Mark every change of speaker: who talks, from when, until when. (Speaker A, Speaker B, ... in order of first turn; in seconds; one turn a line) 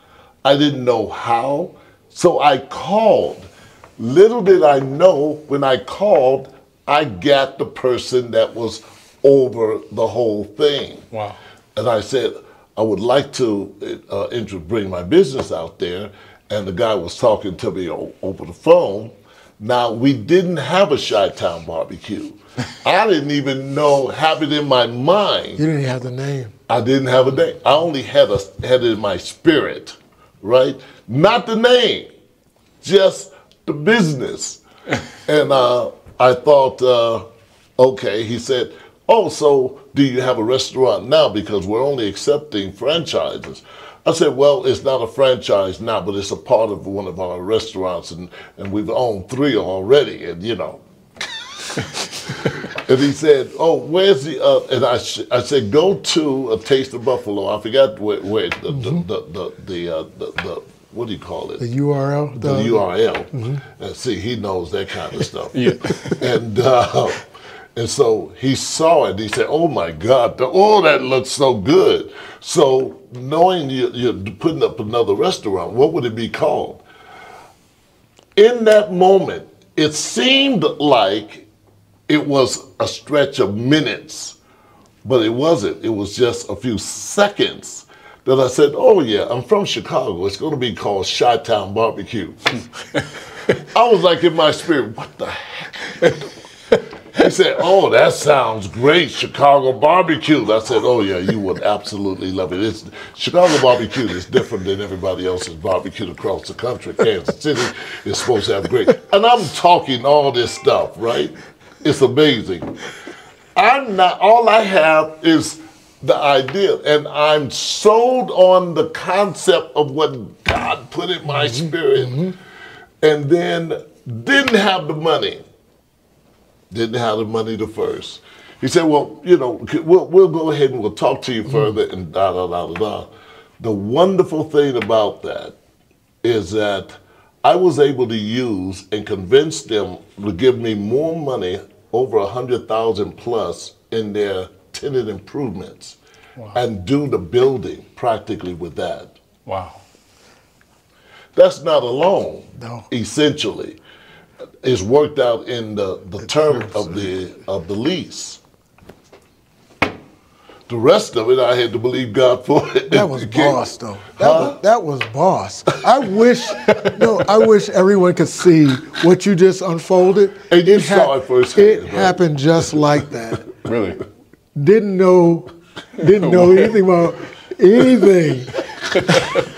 Speaker A: 0.4-11.1
Speaker B: 11.1-11.4
Speaker A: 11.7-25.6
Speaker C: 25.6-26.5
Speaker A: 26.7-32.1
Speaker A: 32.8-34.6
Speaker A: 35.2-37.2
Speaker A: 37.8-50.8
Speaker A: 51.6-61.6
Speaker C: 58.7-59.0
Speaker C: 61.6-62.8
Speaker A: 62.4-76.8
Speaker C: 63.3-63.6
Speaker B: 65.5-66.2
Speaker A: 78.3-81.5
Speaker A: 82.1-84.4
Speaker A: 85.0-92.6
Speaker A: 93.4-96.3
Speaker A: 97.1-112.8
Speaker A: 113.5-122.3
Speaker C: 121.5-122.3
Speaker A: 123.0-125.5
Speaker A: 126.7-135.6
Speaker A: 136.2-146.0
Speaker A: 146.5-149.2
Speaker B: 149.4-149.8
Speaker A: 151.3-153.8
Speaker C: 152.6-152.9
Speaker A: 154.6-158.4
Speaker C: 156.5-156.8
Speaker A: 160.7-163.6
Speaker C: 162.9-173.5
Speaker A: 164.2-164.6
Speaker A: 166.6-167.2
Speaker A: 170.5-172.2
Speaker B: 173.6-174.0
Speaker C: 174.5-178.6
Speaker B: 176.1-176.8
Speaker B: 179.0-179.4